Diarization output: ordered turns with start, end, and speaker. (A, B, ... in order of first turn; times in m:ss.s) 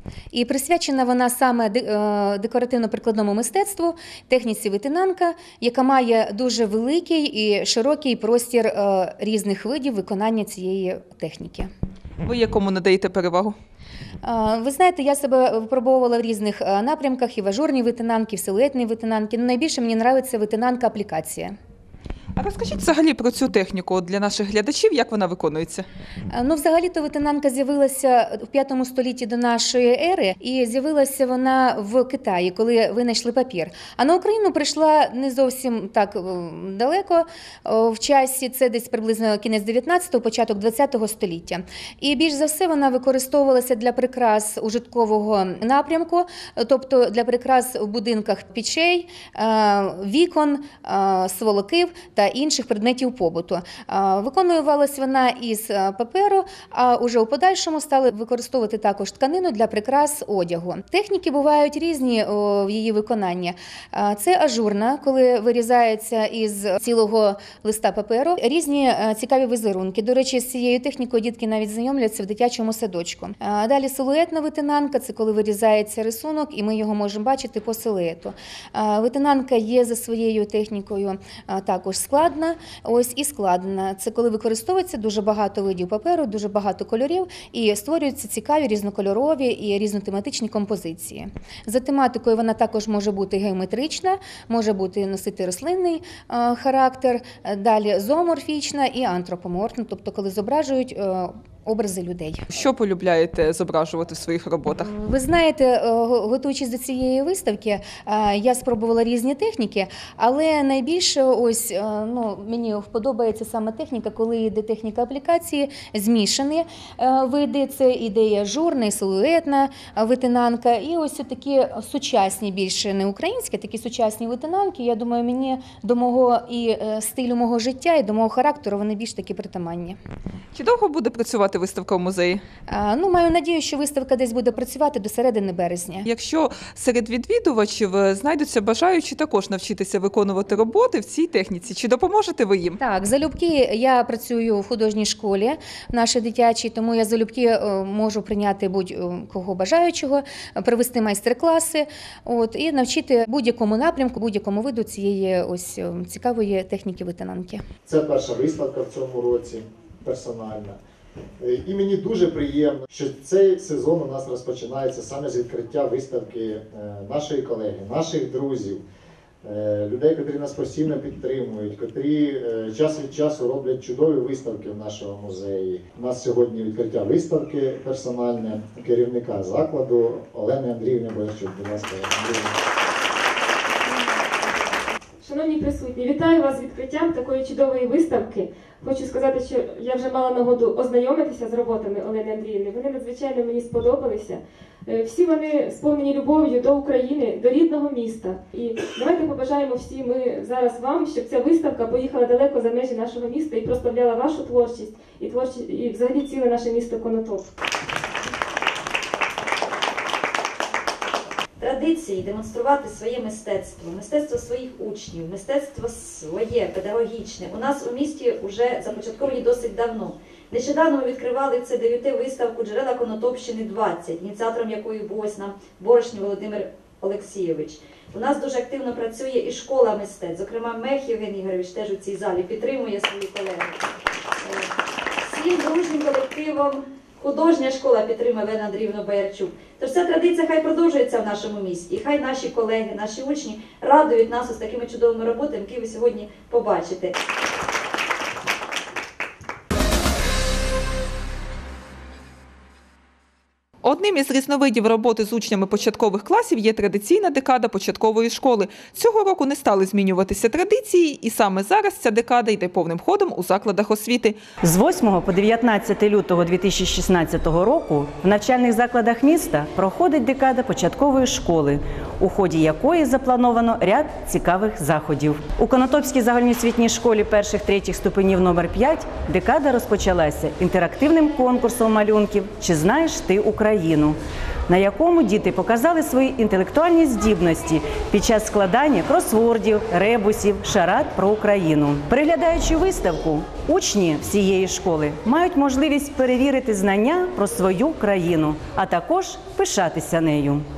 0:00.3-0:11.7 A
0:12.3-0:13.5 B
0:14.2-0:21.5 A
0:22.4-0:25.8 B
0:26.3-1:42.4 A
1:42.5-1:44.9 B
1:44.7-2:10.0 A
2:10.5-2:12.4 B
2:12.7-2:16.1 A
2:16.1-2:22.8 B
2:22.8-2:37.6 A
2:37.8-2:40.8 C
2:41.4-2:48.8 C
2:49.4-3:02.5 C
3:05.2-3:27.5 D
3:31.6-4:07.2 E
4:13.8-4:24.4 B
4:24.6-5:00.6 F